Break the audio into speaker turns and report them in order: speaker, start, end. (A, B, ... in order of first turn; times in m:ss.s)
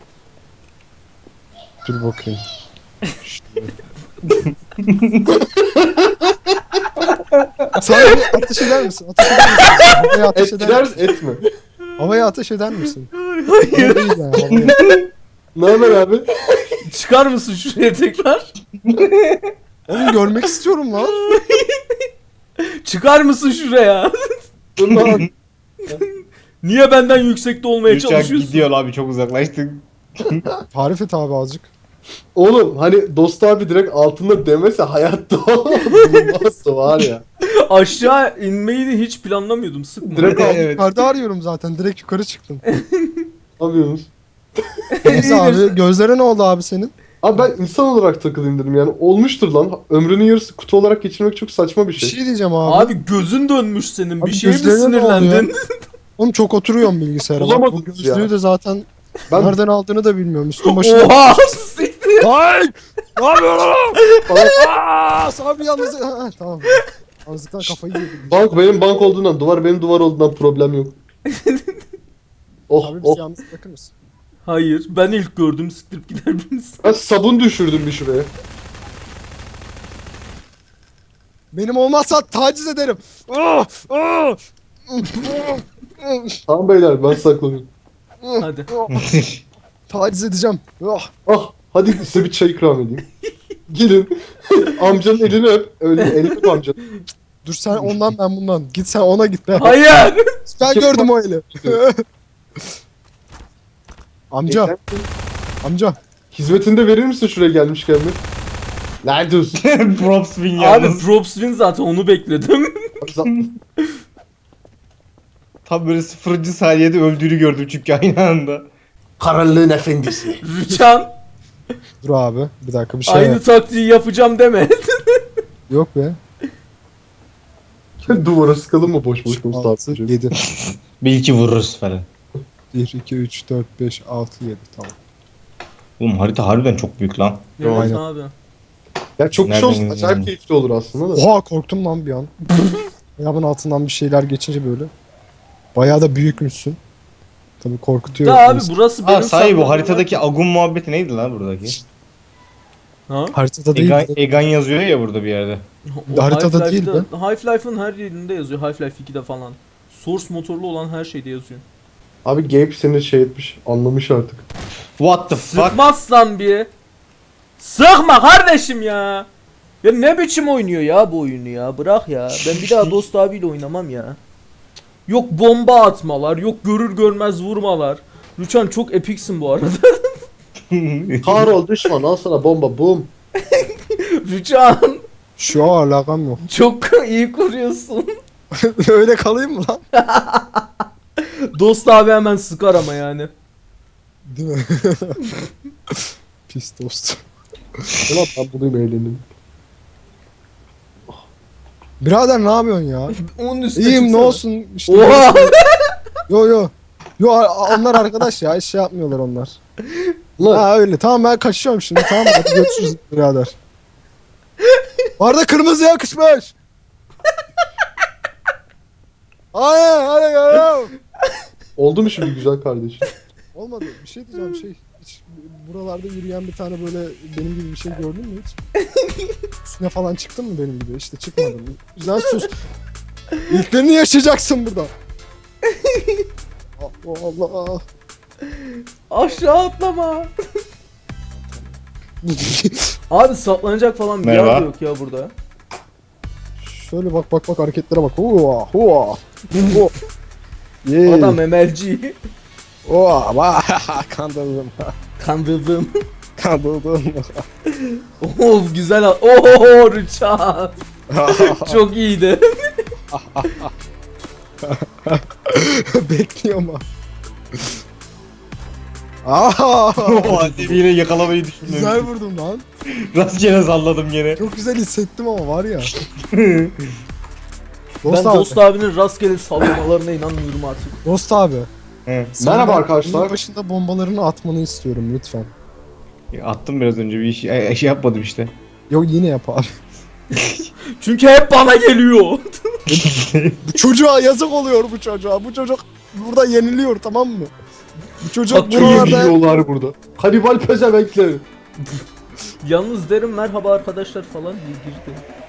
0:01.8-0:02.4 A
0:03.2-0:03.7 A
0:04.3-0:05.3 B
0:05.4-0:06.4 C
0:07.0-0:07.8 B
0:07.8-0:11.0 A
0:09.3-0:09.9 D
0:10.3-0:11.4 C
0:12.0-0:13.1 A
0:13.1-0:15.0 D
0:13.7-0:14.8 A
0:14.6-0:15.0 B
0:15.5-0:16.3 C
0:16.8-0:18.5 D
0:18.8-0:19.5 B
0:19.9-0:21.3 A
0:21.0-0:21.8 D
0:22.8-0:24.1 D
0:24.8-0:25.3 C
0:24.9-0:25.3 B
0:25.9-0:28.7 D
0:27.8-0:30.4 B
0:30.7-0:31.7 A
0:32.3-0:37.2 C
0:37.7-0:40.4 D
0:40.1-0:40.7 C
0:40.2-0:40.9 B
0:40.3-0:42.6 A
0:42.7-0:43.2 D
0:43.6-0:44.1 C
0:45.0-0:45.8 D
0:45.0-0:46.9 A
0:47.2-0:52.2 C
0:52.0-0:53.0 A
0:52.6-0:55.6 D
0:54.2-0:55.5 A
0:56.2-1:01.5 A
0:57.4-0:58.3 C
0:59.3-0:59.6 C
1:00.6-1:02.3 D
1:02.2-1:04.0 A
1:04.3-1:04.6 C
1:04.5-1:08.5 A
1:08.3-1:11.0 C
1:11.3-1:11.8 D
1:12.7-1:13.2 C
1:12.8-1:13.9 A
1:14.4-1:16.8 D
1:16.8-1:18.3 C
1:21.5-1:26.4 A
1:26.5-1:27.7 C
1:28.2-1:29.0 A
1:28.4-1:28.7 D
1:28.9-1:29.4 B
1:29.9-1:31.1 A
1:31.2-1:33.0 C
1:33.7-1:36.8 C
1:36.0-1:37.0 D
1:37.4-1:39.8 A
1:39.5-1:40.2 D
1:40.4-1:42.0 A
1:40.6-1:41.1 C
1:44.3-1:44.7 A
1:44.5-1:45.1 C
1:45.6-1:46.0 A
1:46.3-1:48.2 C
1:49.0-1:49.6 C
1:49.6-1:51.1 B
1:50.6-1:52.9 D
1:53.0-1:53.4 C
1:55.6-1:58.7 B
1:59.2-2:00.4 C
2:00.4-2:01.1 D
2:02.0-2:03.4 A
2:03.0-2:05.2 D
2:05.7-2:06.2 A
2:08.0-2:10.1 C
2:09.3-2:10.3 A
2:10.4-2:12.1 B
2:12.7-2:15.0 A
2:16.0-2:17.6 B
2:17.6-2:18.3 D
2:17.6-2:17.9 C
2:17.7-2:18.0 A
2:19.2-2:21.2 C
2:19.4-2:20.3 B
2:21.1-2:22.3 A
2:23.2-2:24.9 A
2:25.7-2:26.8 A
2:27.6-2:28.7 A
2:28.1-2:30.1 D
2:29.0-2:31.8 B
2:33.1-2:33.3 D
2:33.3-2:34.2 A
2:33.7-2:35.6 B
2:35.9-2:41.6 D
2:36.1-2:37.1 A
2:42.2-2:44.5 C
2:45.0-2:45.8 B
2:45.3-2:46.7 D
2:47.6-2:49.3 D
2:49.8-2:54.2 D
2:52.3-2:53.0 B
2:55.1-3:00.2 D
3:00.7-3:01.5 B
3:01.2-3:03.1 C
3:03.4-3:05.0 D
3:05.4-3:06.4 A
3:06.4-3:08.0 D
3:08.6-3:09.8 A
3:09.9-3:13.3 D
3:14.3-3:15.2 A
3:16.5-3:17.2 A
3:18.1-3:19.2 C
3:22.0-3:23.2 A
3:23.2-3:25.8 D
3:23.8-3:25.5 A
3:26.3-3:29.6 A
3:30.4-3:30.6 C
3:30.5-3:33.6 A
3:32.0-3:32.7 D
3:35.2-3:36.5 A
3:39.5-3:40.9 A
3:41.8-3:43.1 C
3:43.5-3:48.6 A
3:48.8-3:49.3 D
3:49.6-3:52.5 A
3:52.2-3:52.4 D
3:53.5-3:54.9 A
3:55.6-3:56.2 D
3:56.8-3:57.8 A
3:59.1-4:00.3 D
4:01.4-4:02.9 A
4:03.1-4:05.3 D
4:04.2-4:04.7 B
4:06.6-4:09.9 A
4:09.5-4:09.8 D
4:10.8-4:11.4 A
4:11.0-4:12.2 D
4:12.8-4:14.9 A
4:15.2-4:15.9 D
4:16.4-4:17.4 A
4:17.8-4:20.7 D
4:21.1-4:21.8 A
4:21.3-4:22.4 D
4:23.1-4:23.7 A
4:24.6-4:26.8 A
4:29.2-4:30.8 A
4:30.0-4:32.1 B
4:31.6-4:32.6 A
4:33.1-4:34.4 B
4:34.4-4:35.9 A
4:36.0-4:36.9 B
4:38.0-4:38.6 A
4:38.0-4:41.0 D
4:41.0-4:41.7 A
4:42.1-4:42.3 B
4:42.3-4:45.5 A
4:42.4-4:43.3 C
4:46.3-4:48.5 B
4:48.9-4:49.6 A
4:50.3-4:50.6 B
4:51.0-4:52.6 D
4:52.9-4:53.7 B
4:53.6-4:57.5 A
4:58.2-4:59.4 A
4:58.5-4:59.1 D
4:58.7-5:01.4 C
5:02.6-5:05.2 D